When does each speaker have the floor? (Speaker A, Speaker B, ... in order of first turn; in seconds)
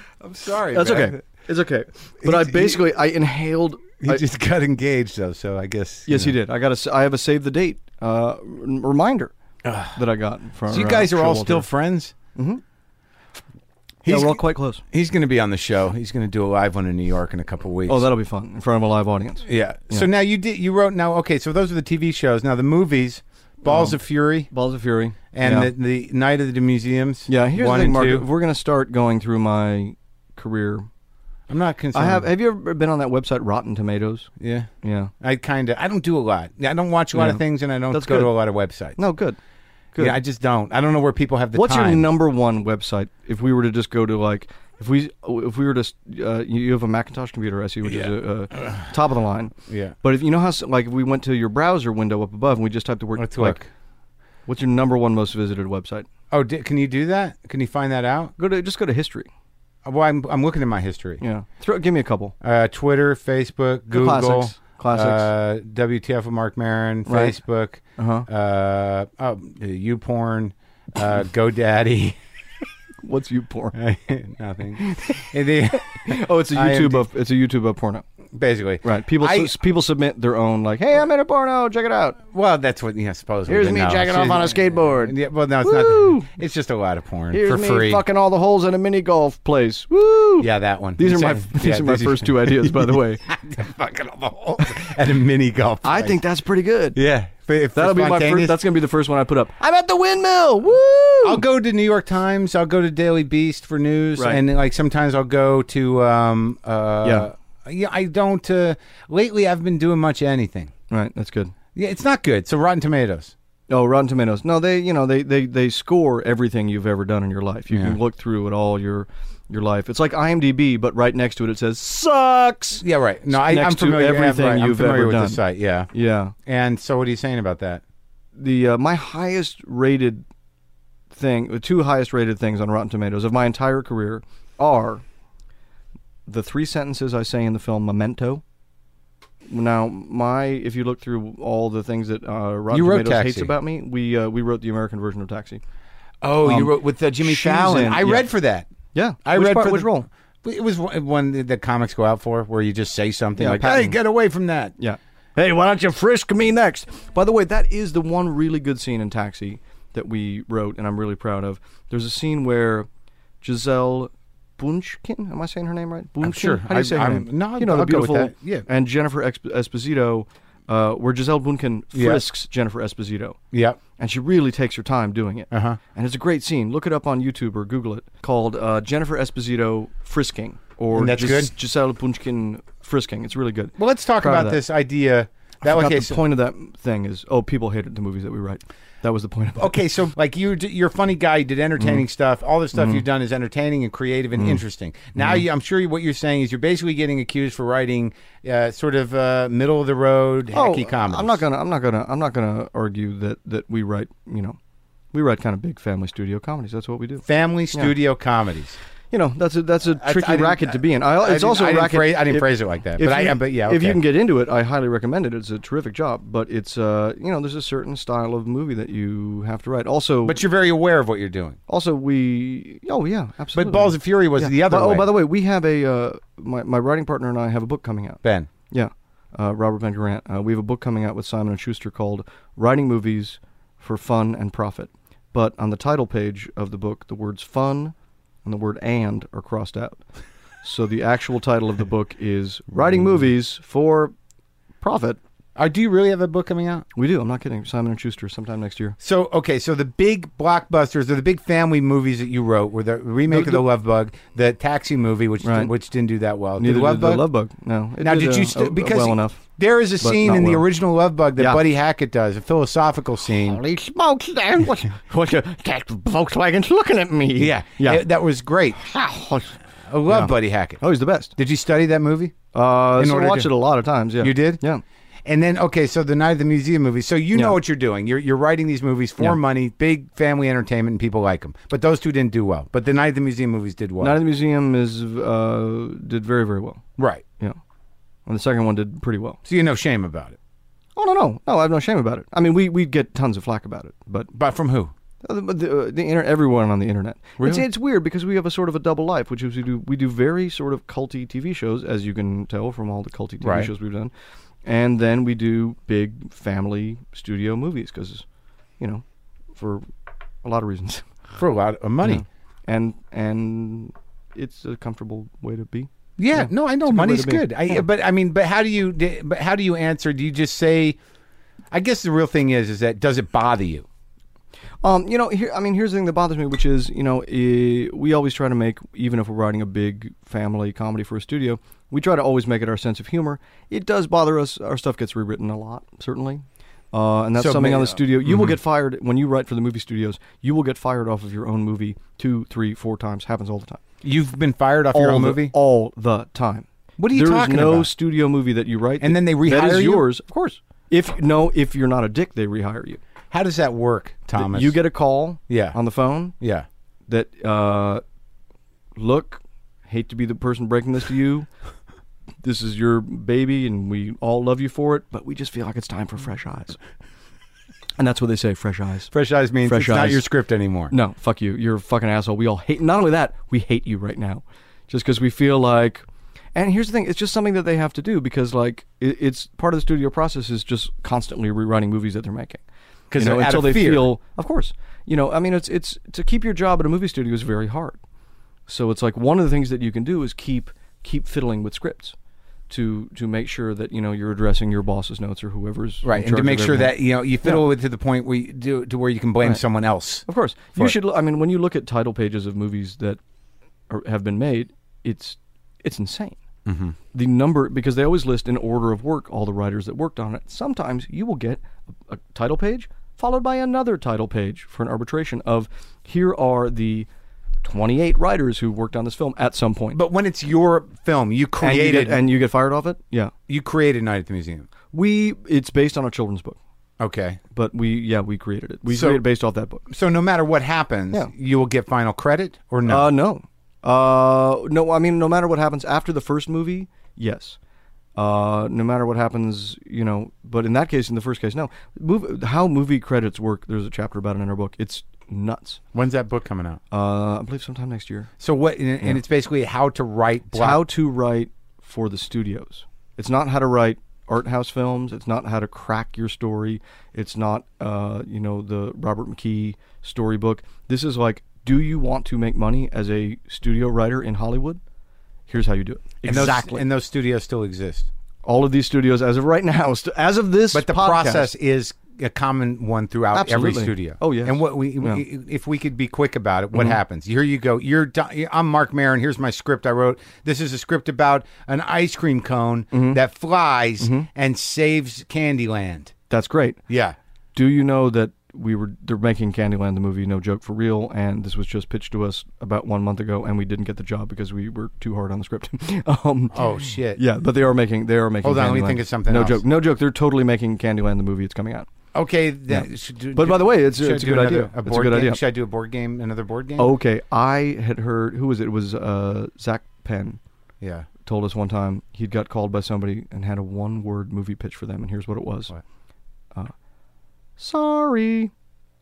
Speaker A: 0.2-1.2, 2.2-2.8, 4.0-6.4, 9.6-10.0, 10.7-12.2, 14.1-18.1, 19.4-24.5, 25.3-28.3, 31.5-32.3, 34.4-34.7, 35.2-39.0, 40.0-42.1, 47.9-48.8, 49.7-50.0, 53.2-53.7, 56.3-58.3, 59.9-61.2, 62.4-72.2, 73.8-77.0, 78.3-79.6, 82.3-88.0, 90.4-96.2, 97.0-98.6, 101.2-110.7, 111.8-113.3, 117.7-118.0, 122.8-125.9, 126.5-127.8, 142.7-143.5, 146.2-148.7, 149.2-154.7, 166.2-168.7, 171.9-172.2, 173.5-173.8, 175.5-175.8, 180.9-181.5, 183.8-186.2, 189.6-201.4, 207.3-208.8, 210.0-214.0, 220.2-221.6, 223.5-225.1, 228.2-228.5, 245.6-246.8, 249.0-257.2, 258.0-263.6, 267.4-268.8, 269.9-270.8, 271.4-272.4, 273.0-273.5, 274.2-274.6, 275.2-284.1, 287.0-287.2, 289.5-290.4, 294.3-294.9, 297.4-297.6, 303.4-303.7, 311.4-312.2, 316.2-321.0, 321.7-323.9, 337.4-338.6, 344.0-345.5, 347.0-347.9, 349.0-350.1, 353.3-354.8, 355.5-355.8, 356.4-356.7, 369.1-370.9, 383.1-384.1, 396.0-400.2, 406.6-407.0, 419.9-422.2, 423.5-424.7, 427.0-427.4, 428.9-429.2, 429.9-433.1, 445.9-446.8, 448.4-450.9, 466.2-468.1, 470.7-486.1, 486.9-487.2, 496.5-497.2, 498.4-499.6, 502.1-506.9, 510.8-511.1
Speaker B: 0.7-4.2, 6.1-9.3, 9.9-11.7, 12.3-12.6, 14.0-14.8, 17.9-20.1, 23.7-24.0, 24.5-25.7, 27.3-30.9, 31.9-34.3, 34.8-35.1, 37.1-38.4, 39.0-39.4, 39.9-40.2, 41.5-53.6, 54.5-56.1, 58.4-59.3, 61.2-62.4, 63.9-65.3, 67.1-67.4, 68.0-68.3, 73.0-73.8, 74.8-78.1, 78.8-82.2, 83.5-85.1, 85.6-86.3, 87.3-93.3, 95.8-97.0, 97.8-101.4, 107.0-107.3, 110.9-111.5, 113.7-125.4, 125.9-126.3, 128.4-130.2, 131.1-135.0, 136.3-138.4, 139.5-145.6, 146.4-148.3, 148.9-150.1, 153.4-154.0, 154.8-162.9, 163.4-173.4, 174.0-184.6, 185.6-189.8, 192.8-193.0, 194.4-194.6, 195.2-195.4, 200.5-204.6, 205.1-207.9, 209.1-220.4, 221.7-237.9, 238.4-240.1, 240.6-244.1, 244.8-245.2, 246.9-249.0, 253.3-253.7, 255.4-255.7, 256.6-259.4, 260.0-260.7, 265.1-265.6, 266.9-268.1, 270.1-271.4, 272.5-274.8, 284.0-286.8, 288.3-289.4, 291.0-294.3, 295.2-304.1, 304.6-308.3, 308.8-309.0, 309.6-309.9, 310.4-311.1, 312.0-317.8, 324.8-343.8, 344.9-353.0, 354.3-356.4, 357.1-358.0, 359.0-361.5, 362.4-366.8, 368.0-369.1, 369.6-370.2, 370.9-376.0, 376.6-382.6, 383.2-388.0, 388.7-392.1, 392.7-397.6, 400.3-403.2, 403.9-406.4, 407.1-417.1, 417.6-420.0, 421.6-423.3, 424.9-426.6, 427.5-429.8, 432.9-437.6, 438.2-445.8, 446.9-448.3, 450.5-464.8, 465.5-466.9, 468.4-471.5, 473.3-475.2, 482.9-483.2, 484.0-484.3, 486.3-486.8, 487.6-501.9, 502.7-505.4, 506.8-510.4, 511.2-515.8, 517.6-518.5
Speaker C: 83.5-85.1, 263.4-266.9, 268.9-269.4